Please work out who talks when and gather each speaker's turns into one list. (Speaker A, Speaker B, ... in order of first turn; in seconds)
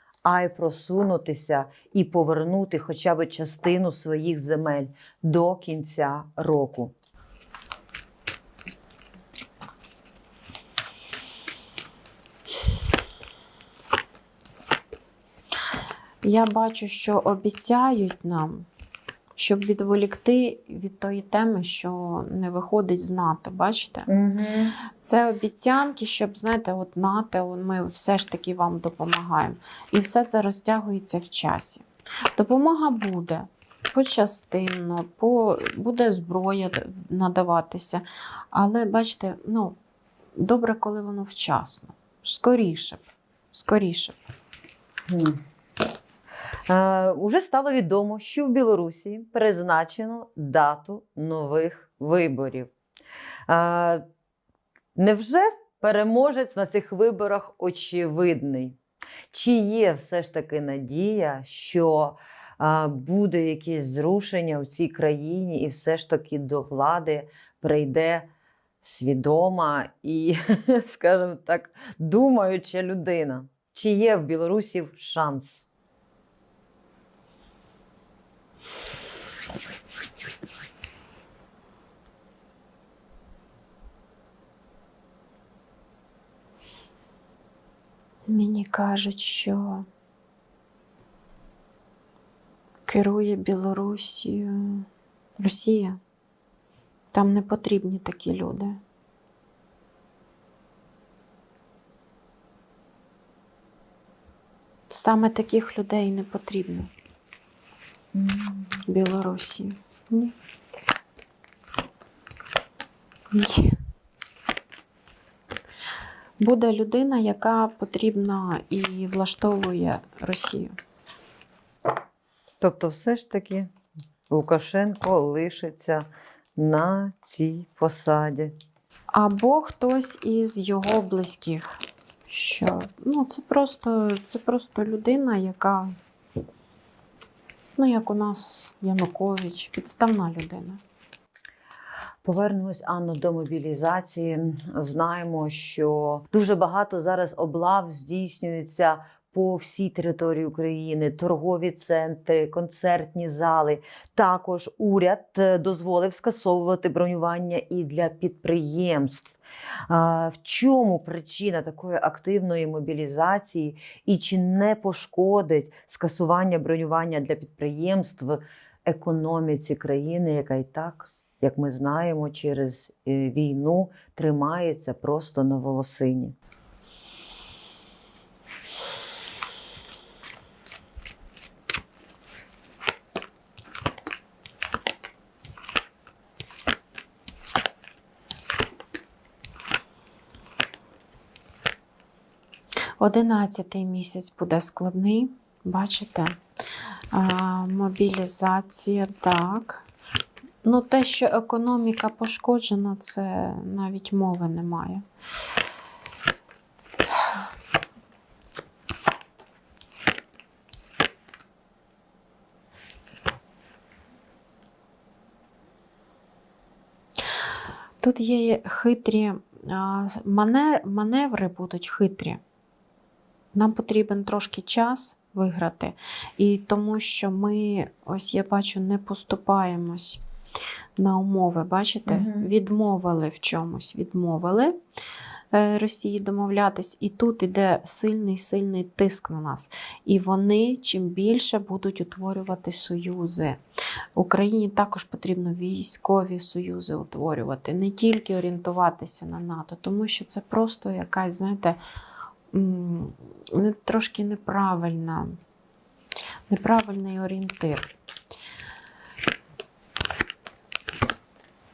Speaker A: 0.2-6.9, 24.1-24.7, 45.1-45.4, 46.7-52.7, 53.5-54.0, 55.0-58.8, 59.3-68.3, 68.8-75.7, 108.1-108.8, 122.6-123.7, 124.3-126.1, 126.6-128.5, 142.2-159.4, 159.9-176.3, 232.1-232.5
Speaker B: 16.2-18.7, 19.4-24.1, 25.0-39.8, 40.4-44.2, 88.3-89.9, 92.9-94.9, 95.4-96.0, 97.1-98.8, 104.9-106.9, 108.9-110.3, 113.3-113.7, 116.4-120.8, 129.1-135.9, 137.8-140.8, 193.0-196.4, 197.1-199.9, 200.6-205.0, 218.0-222.4, 223.5-230.2, 231.0-234.8, 235.5-243.6, 244.2-251.8, 252.5-255.4, 256.5-257.9